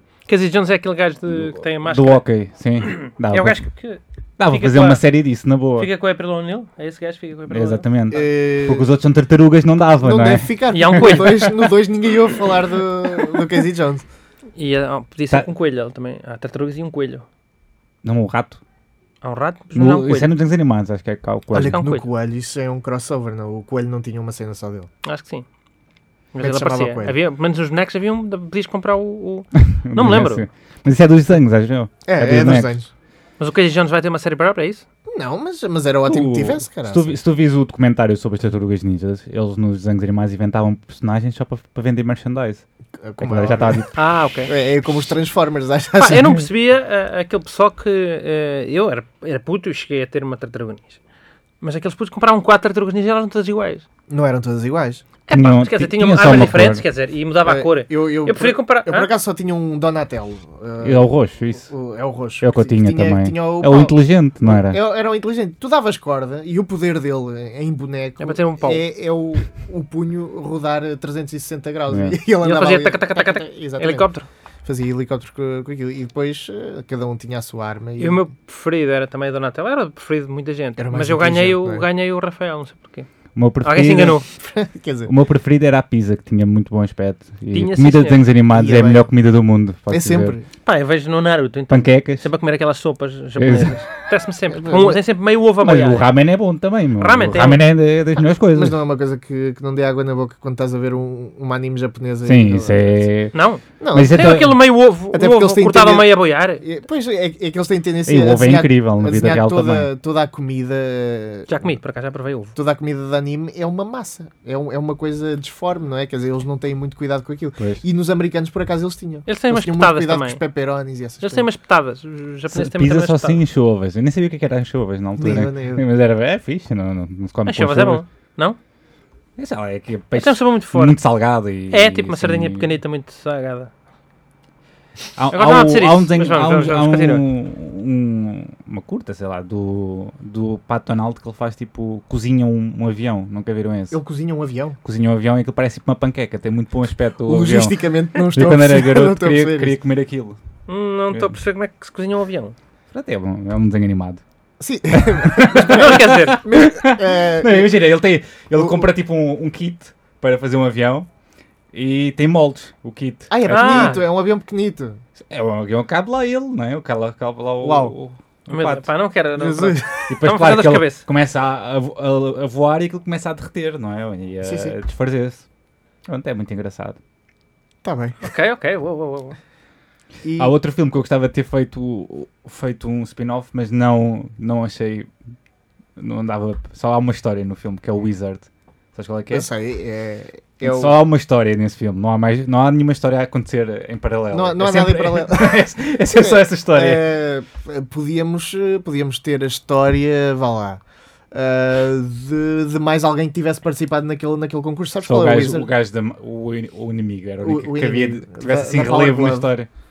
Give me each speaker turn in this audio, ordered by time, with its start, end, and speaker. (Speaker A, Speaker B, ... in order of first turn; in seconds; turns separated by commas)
Speaker A: 0.3-2.2, Speaker B: 1.4-3.6, Speaker A: 2.8-5.0, Speaker B: 4.4-5.9, Speaker A: 5.8-7.9, Speaker B: 7.5-11.3, Speaker C: 8.1-8.9, Speaker C: 10.0-14.0, Speaker A: 10.7-11.6, Speaker A: 14.6-17.3, Speaker B: 18.0-18.6, Speaker A: 19.2-20.3, Speaker B: 19.7-21.8, Speaker C: 21.5-24.9, Speaker A: 21.7-22.1, Speaker A: 25.0-25.4, Speaker A: 26.3-30.4, Speaker C: 26.4-27.1, Speaker B: 29.6-32.7, Speaker C: 32.0-32.9, Speaker A: 33.4-34.9, Speaker C: 35.1-37.1, Speaker B: 36.0-42.6, Speaker C: 43.0-43.9, Speaker B: 43.2-43.9, Speaker A: 43.9-44.5, Speaker C: 44.5-46.5, Speaker A: 46.0-51.0, Speaker A: 51.6-53.8, Speaker C: 54.1-55.0, Speaker A: 55.3-59.1, Speaker B: 55.3-56.8, Speaker C: 57.5-74.1, Speaker B: 60.8-61.7, Speaker B: 62.4-64.8, Speaker A: 68.2-68.8, Speaker B: 71.9-72.2, Speaker A: 72.4-74.3, Speaker C: 74.6-78.3, Speaker A: 78.0-83.1, Speaker C: 80.8-81.9, Speaker B: 83.3-84.2, Speaker A: 83.6-84.3, Speaker C: 84.3-85.1, Speaker B: 85.0-90.4, Speaker A: 87.5-88.2, Speaker C: 88.5-89.1, Speaker C: 89.9-90.5, Speaker A: 90.6-96.1, Speaker B: 91.7-92.2, Speaker B: 93.4-93.8, Speaker C: 94.5-95.0, Speaker B: 95.6-98.8, Speaker A: 97.0-97.6, Speaker C: 98.4-103.1, Speaker B: 102.2-103.4, Speaker A: 103.3-106.6, Speaker C: 103.8-104.5, Speaker B: 103.9-104.5, Speaker C: 105.1-111.5, Speaker B: 108.0-109.9, Speaker A: 111.5-112.5, Speaker C: 112.5-121.5, Speaker A: 119.3-120.4, Speaker A: 121.2-123.4, Speaker B: 122.5-128.0, Speaker C: 125.2-125.8, Speaker A: 127.5-128.6, Speaker B: 129.4-132.7, Speaker A: 130.1-131.0, Speaker A: 131.7-133.7, Speaker B: 135.2-144.0, Speaker A: 135.3-137.2, Speaker C: 143.9-144.8, Speaker B: 144.8-150.4, Speaker C: 147.2-149.8, Speaker A: 150.7-152.6, Speaker B: 152.9-154.2, Speaker C: 154.6-157.8, Speaker B: 154.9-161.1, Speaker A: 155.6-156.4, Speaker C: 158.6-158.9, Speaker B: 161.7-164.0, Speaker C: 163.3-165.0, Speaker A: 163.5-164.0, Speaker B: 165.2-168.9, Speaker C: 167.6-167.9, Speaker A: 168.5-171.1, Speaker C: 169.4-170.1, Speaker B: 170.1-175.4, Speaker C: 174.4-174.8, Speaker B: 176.1-177.0, Speaker C: 177.8-178.2, Speaker A: 178.2-179.4, Speaker C: 180.2-180.5, Speaker B: 180.4-185.1, Speaker B: 185.9-189.5, Speaker C: 189.3-190.9, Speaker B: 190.6-197.0, Speaker C: 194.3-200.8, Speaker C: 201.3-205.7, Speaker B: 205.0-209.7, Speaker C: 207.4-209.5